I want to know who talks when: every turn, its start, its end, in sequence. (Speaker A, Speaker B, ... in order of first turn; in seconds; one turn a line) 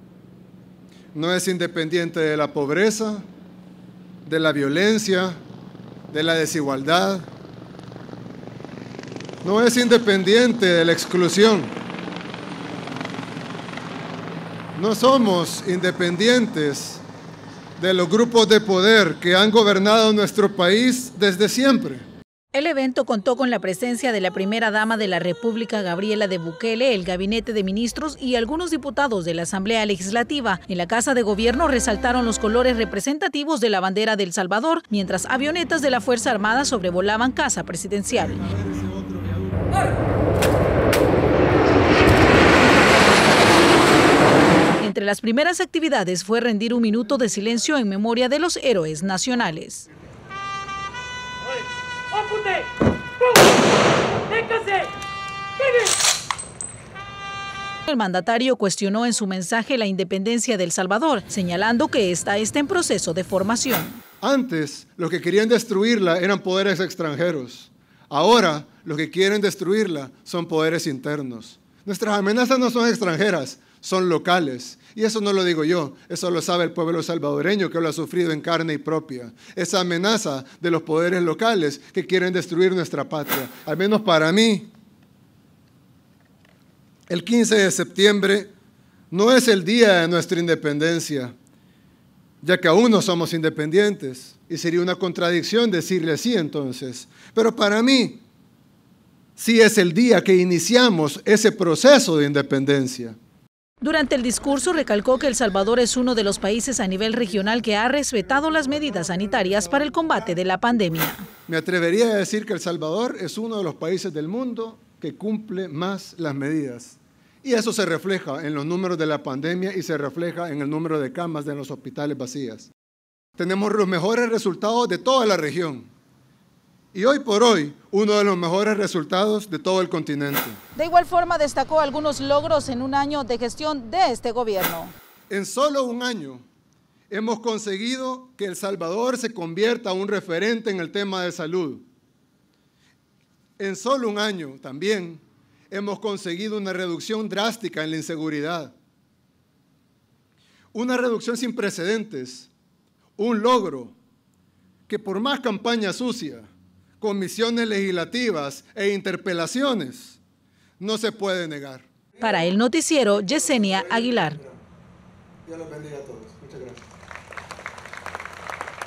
Speaker A: 1.1-3.3
Speaker A: 4.2-5.4
Speaker A: 6.1-7.3
Speaker A: 9.4-11.8
Speaker A: 14.8-17.0
Speaker A: 17.8-22.1
Speaker B: 22.5-38.5
Speaker A: 38.5-39.6
Speaker B: 44.8-49.9
Speaker B: 52.2-52.6
Speaker B: 54.4-54.9
Speaker B: 57.9-64.0
Speaker A: 64.2-84.7
Speaker A: 87.1-88.5
Speaker A: 89.1-91.3
Speaker A: 92.4-98.2
Speaker A: 99.4-103.2
Speaker B: 103.8-111.3
Speaker A: 111.5-122.7
Speaker A: 123.4-125.9
Speaker A: 126.9-130.6
Speaker B: 130.8-134.9
Speaker A: 135.3-136.4
Speaker A: 137.1-141.8
Speaker A: 143.6-148.7
Speaker A: 150.7-152.5
Speaker A: 153.2-153.9
Speaker A: 154.9-160.2
Speaker A: 160.8-161.9
Speaker B: 162.2-164.4
Speaker A: 163.8-164.6
Speaker A: 165.4-166.8